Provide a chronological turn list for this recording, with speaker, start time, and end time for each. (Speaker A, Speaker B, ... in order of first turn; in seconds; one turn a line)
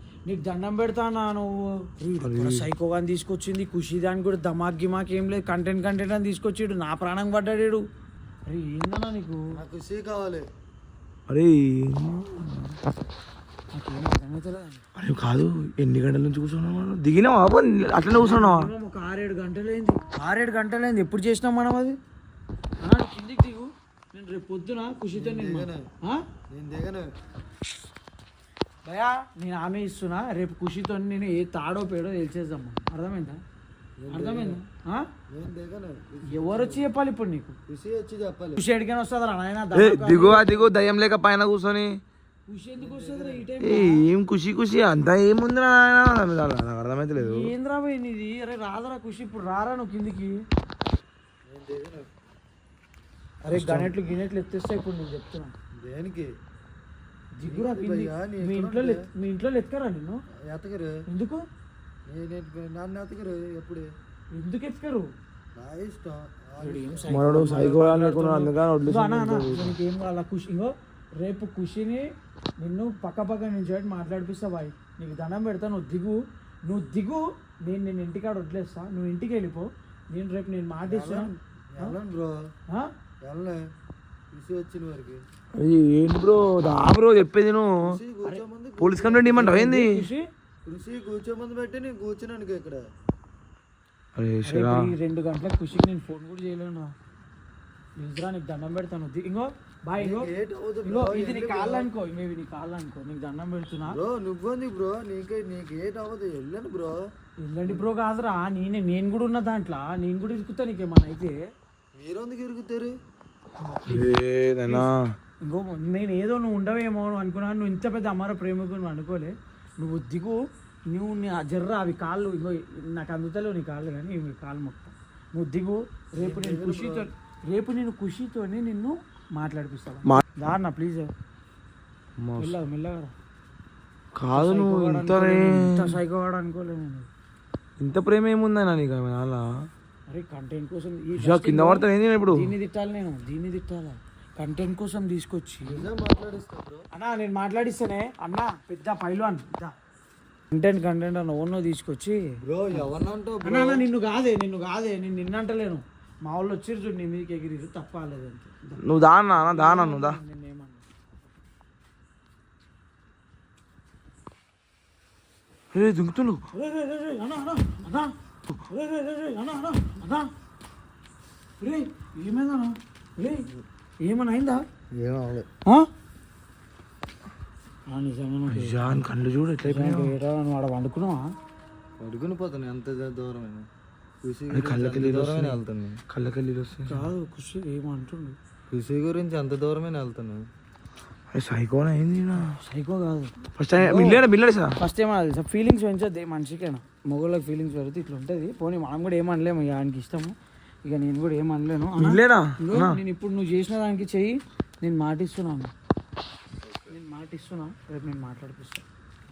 Speaker A: 0.3-7.8
Speaker B: 2.2-2.7
Speaker A: 8.5-9.4
Speaker C: 9.6-10.5
Speaker B: 11.3-12.5
Speaker A: 13.7-14.8
Speaker B: 15.0-18.7
Speaker A: 18.2-22.0
Speaker A: 22.8-26.2
Speaker C: 25.1-25.9
Speaker C: 26.5-27.1
Speaker A: 28.9-33.4
Speaker C: 34.0-34.6
Speaker A: 34.1-35.1
Speaker C: 35.3-36.9
Speaker A: 36.3-37.6
Speaker C: 37.7-38.6
Speaker A: 38.6-40.7
Speaker B: 39.7-41.9
Speaker A: 42.5-44.0
Speaker C: 42.8-43.5
Speaker B: 43.6-47.5
Speaker A: 47.2-50.4
Speaker C: 51.5-52.1
Speaker A: 53.5-55.5
Speaker B: 53.5-54.0
Speaker C: 55.8-56.3
Speaker A: 57.4-60.2
Speaker C: 57.5-59.0
Speaker C: 60.3-60.9
Speaker A: 61.1-61.4
Speaker C: 62.1-63.9
Speaker A: 64.3-65.1
Speaker C: 65.5-67.3
Speaker A: 66.6-82.0
Speaker B: 67.1-69.8
Speaker C: 80.8-82.5
Speaker C: 83.2-83.7
Speaker C: 84.3-85.2
Speaker B: 85.6-88.0
Speaker C: 87.9-89.3
Speaker B: 88.8-90.0
Speaker A: 89.1-90.3
Speaker C: 90.7-92.9
Speaker B: 94.2-94.9
Speaker A: 94.5-96.9
Speaker A: 98.0-100.3
Speaker C: 100.0-101.9
Speaker A: 100.9-104.0
Speaker C: 103.9-107.0
Speaker A: 107.5-111.4
Speaker C: 112.0-113.0
Speaker A: 113.6-114.9
Speaker B: 113.9-115.1
Speaker A: 115.4-131.1
Speaker C: 126.2-127.1
Speaker B: 132.2-132.6
Speaker A: 132.4-133.1
Speaker B: 134.2-136.0
Speaker A: 134.3-137.1
Speaker B: 137.8-139.4
Speaker A: 140.1-145.9
Speaker B: 141.2-142.5
Speaker C: 145.6-146.8
Speaker A: 146.9-149.7
Speaker A: 150.5-152.2
Speaker C: 152.5-153.8
Speaker A: 153.4-158.8
Speaker B: 158.8-160.2
Speaker A: 159.3-160.8
Speaker B: 165.7-166.4
Speaker A: 166.5-168.1
Speaker A: 168.7-170.3
Speaker A: 171.6-173.5
Speaker A: 174.0-174.6
Speaker C: 174.9-175.5
Speaker A: 177.9-178.9
Speaker B: 178.5-180.2
Speaker A: 179.6-181.3
Speaker C: 182.0-183.7
Speaker C: 184.2-186.0
Speaker B: 184.5-187.1
Speaker A: 186.9-188.4
Speaker C: 188.7-190.5
Speaker B: 191.3-192.5
Speaker A: 192.4-193.3
Speaker B: 193.6-194.8
Speaker A: 194.8-205.7
Speaker B: 202.0-203.0
Speaker A: 206.9-208.8